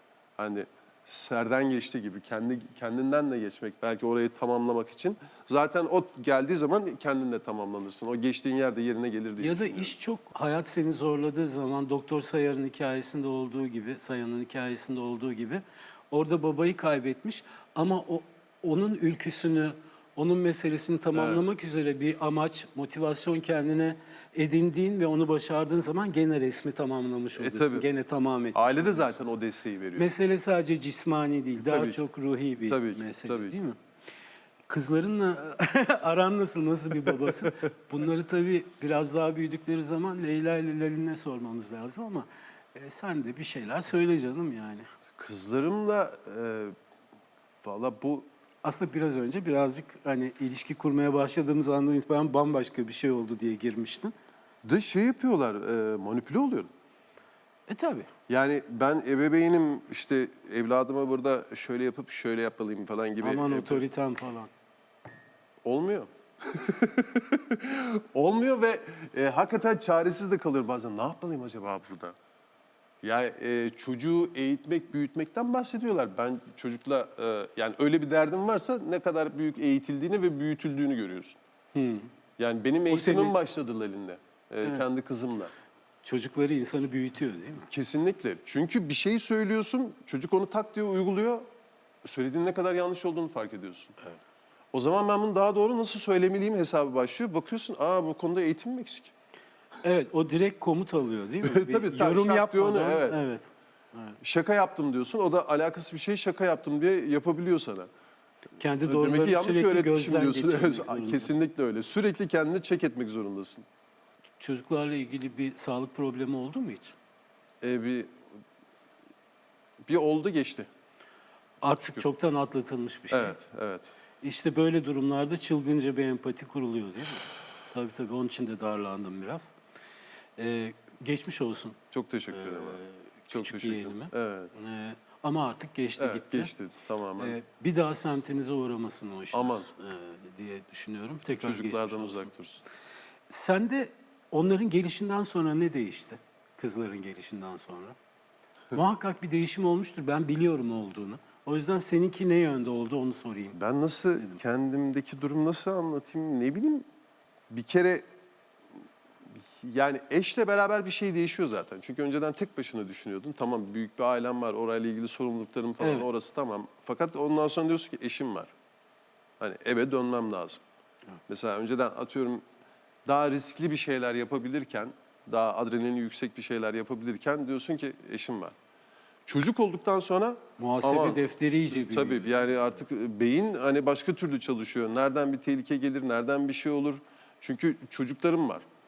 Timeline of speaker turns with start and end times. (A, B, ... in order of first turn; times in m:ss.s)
0:00.4-0:09.9 A
0:09.4-0:29.2 B
0:21.1-0:21.4 A
0:27.4-0:27.8 A
0:28.5-0:30.1 A
0:30.0-0:33.8 B
0:31.6-0:32.0 A
0:32.6-0:33.6 A
0:34.7-0:44.9 B
0:37.1-0:37.5 A
0:45.2-0:46.7 A
0:47.6-0:48.3 A
0:48.6-0:54.1 B
0:54.6-0:56.7 A
0:57.7-0:58.1 B
0:58.3-1:03.8 A
1:03.2-1:04.5 B
1:05.6-1:12.2 A
1:13.0-1:21.4 A
1:21.7-1:22.1 B
1:22.4-1:25.5 A
1:22.9-1:23.4 B
1:26.0-1:27.7 B
1:27.7-1:31.5 A
1:32.0-1:34.0 A
1:34.7-1:39.1 A
1:39.8-1:44.2 B
1:41.4-1:43.2 A
1:44.2-1:47.9 A
1:48.6-1:51.3 B
1:48.8-1:53.6 A
1:54.4-1:57.0 B
1:57.6-1:58.2 A
1:59.8-2:00.7 A
2:01.6-2:03.4 B
2:01.8-2:02.0 A
2:03.1-2:03.9 A
2:04.2-2:09.5 B
2:10.4-2:11.8 B
2:11.9-2:14.5 A
2:12.3-2:16.5 B
2:16.0-2:17.4 A
2:17.2-2:22.3 B
2:19.3-2:19.7 A
2:21.3-2:22.6 A
2:23.3-2:28.0 B
2:28.7-2:34.4 B
2:33.5-2:36.9 A
2:37.5-2:38.0 A
2:39.5-2:48.5 A
2:45.8-2:46.1 B
2:49.4-2:50.6 A
2:51.3-2:52.4 A
2:53.0-2:58.5 A
2:59.2-3:08.6 A
3:00.6-3:02.3 B